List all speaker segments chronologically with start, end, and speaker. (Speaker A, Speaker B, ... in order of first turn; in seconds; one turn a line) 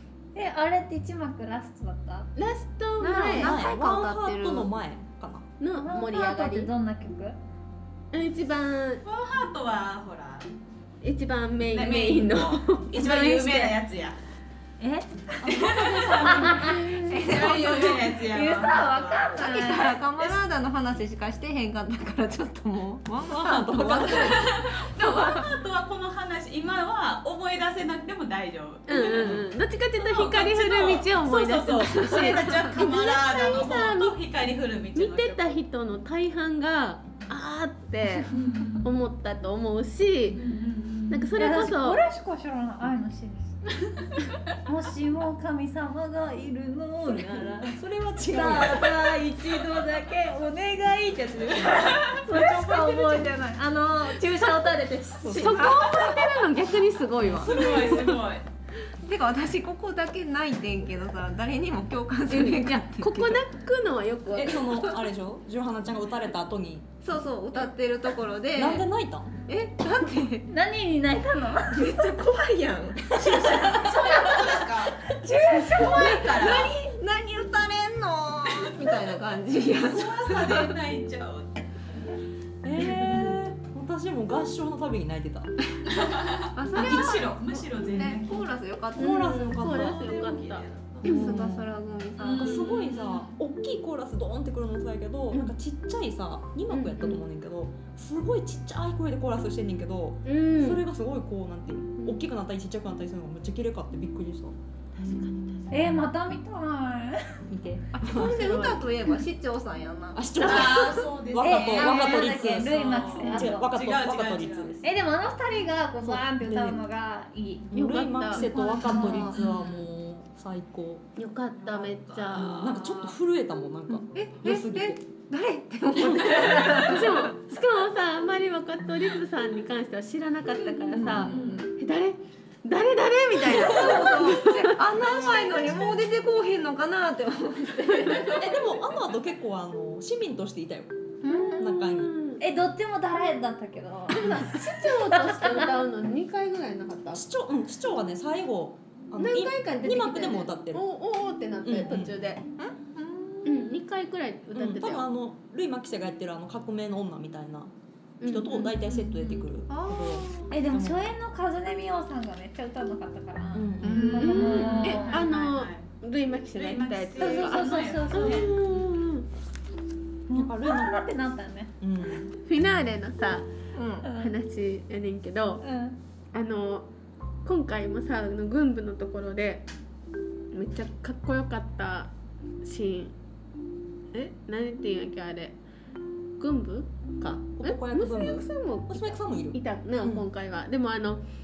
Speaker A: 0.3-2.3
Speaker B: 2.4-3.6
Speaker C: 3.0-4.7
Speaker D: 3.2-5.5
Speaker B: 5.6-6.7
Speaker A: 5.7-7.3
Speaker B: 8.1-9.0
Speaker E: 9.0-10.5
Speaker B: 11.0-13.8
Speaker E: 11.7-14.2
Speaker A: 14.8-15.6
Speaker D: 15.4-16.7
Speaker E: 15.4-19.4
Speaker A: 16.2-16.8
Speaker B: 16.5-17.3
Speaker C: 17.1-18.1
Speaker A: 18.2-20.0
Speaker C: 19.4-25.5
Speaker D: 23.2-24.3
Speaker E: 24.0-35.6
Speaker B: 28.9-34.2
Speaker D: 29.1-29.4
Speaker A: 32.2-32.6
Speaker B: 34.9-38.3
Speaker E: 38.3-38.9
Speaker B: 38.8-40.4
Speaker E: 40.3-41.3
Speaker B: 41.1-42.0
Speaker A: 41.4-43.7
Speaker A: 44.6-55.7
Speaker D: 47.7-49.0
Speaker E: 51.7-53.3
Speaker D: 55.2-55.9
Speaker B: 55.3-58.2
Speaker C: 55.5-55.8
Speaker D: 57.2-57.5
Speaker E: 57.3-58.4
Speaker C: 59.0-63.4
Speaker B: 62.3-64.7
Speaker D: 64.3-66.9
Speaker C: 67.0-68.8
Speaker D: 68.5-69.3
Speaker C: 69.5-70.5
Speaker A: 70.5-71.8
Speaker C: 71.7-74.5
Speaker E: 73.1-75.0
Speaker A: 73.9-74.3
Speaker A: 75.1-76.6
Speaker C: 75.6-80.8
Speaker E: 75.7-76.7
Speaker E: 78.5-78.7
Speaker E: 79.7-81.6
Speaker D: 82.6-85.5
Speaker C: 82.8-83.2
Speaker E: 85.9-88.5
Speaker C: 86.5-87.3
Speaker D: 86.7-87.7
Speaker C: 87.9-89.3
Speaker D: 89.0-90.1
Speaker B: 89.0-91.3
Speaker E: 89.7-91.2
Speaker C: 91.0-92.7
Speaker D: 91.0-91.7
Speaker E: 92.2-93.3
Speaker D: 92.3-106.0
Speaker B: 96.7-97.2
Speaker B: 100.2-100.8
Speaker B: 104.9-105.8
Speaker A: 105.7-107.4
Speaker D: 107.5-108.8
Speaker C: 107.9-110.4
Speaker D: 110.1-114.8
Speaker E: 110.4-114.8
Speaker A: 111.4-113.7
Speaker A: 114.8-117.7
Speaker D: 116.0-116.8
Speaker D: 117.7-121.1
Speaker B: 117.7-118.5
Speaker A: 118.3-119.3
Speaker E: 118.9-119.8
Speaker C: 118.9-119.4
Speaker B: 121.2-122.5
Speaker E: 121.5-123.1
Speaker D: 122.3-125.0
Speaker C: 123.9-127.2
Speaker D: 125.9-126.4
Speaker E: 126.3-127.0
Speaker B: 126.8-135.9
Speaker E: 130.6-131.7
Speaker C: 130.9-131.7
Speaker C: 133.4-138.7
Speaker D: 138.3-142.1
Speaker C: 141.2-141.6
Speaker B: 141.3-142.4
Speaker A: 142.4-144.5
Speaker B: 144.1-147.2
Speaker A: 145.1-145.7
Speaker D: 147.1-150.8
Speaker B: 149.2-152.4
Speaker D: 151.6-152.2
Speaker C: 152.6-153.7
Speaker B: 153.4-155.0
Speaker D: 154.5-157.7
Speaker B: 158.2-158.8
Speaker D: 158.2-161.1
Speaker E: 158.8-159.2
Speaker C: 159.7-160.5
Speaker A: 160.5-165.2
Speaker D: 163.5-164.2
Speaker C: 163.8-164.3
Speaker B: 164.0-169.3
Speaker E: 164.3-165.9
Speaker E: 166.5-168.8
Speaker A: 167.2-168.5
Speaker A: 170.3-171.7
Speaker D: 170.3-171.0
Speaker D: 171.8-172.3
Speaker B: 172.4-173.5
Speaker C: 173.7-174.1
Speaker A: 174.0-174.3
Speaker B: 174.2-175.6
Speaker A: 175.6-175.9
Speaker B: 176.3-176.9
Speaker B: 177.4-179.7
Speaker B: 180.5-182.1
Speaker B: 182.6-183.1
Speaker B: 184.1-185.6
Speaker B: 186.4-191.2
Speaker D: 187.6-190.2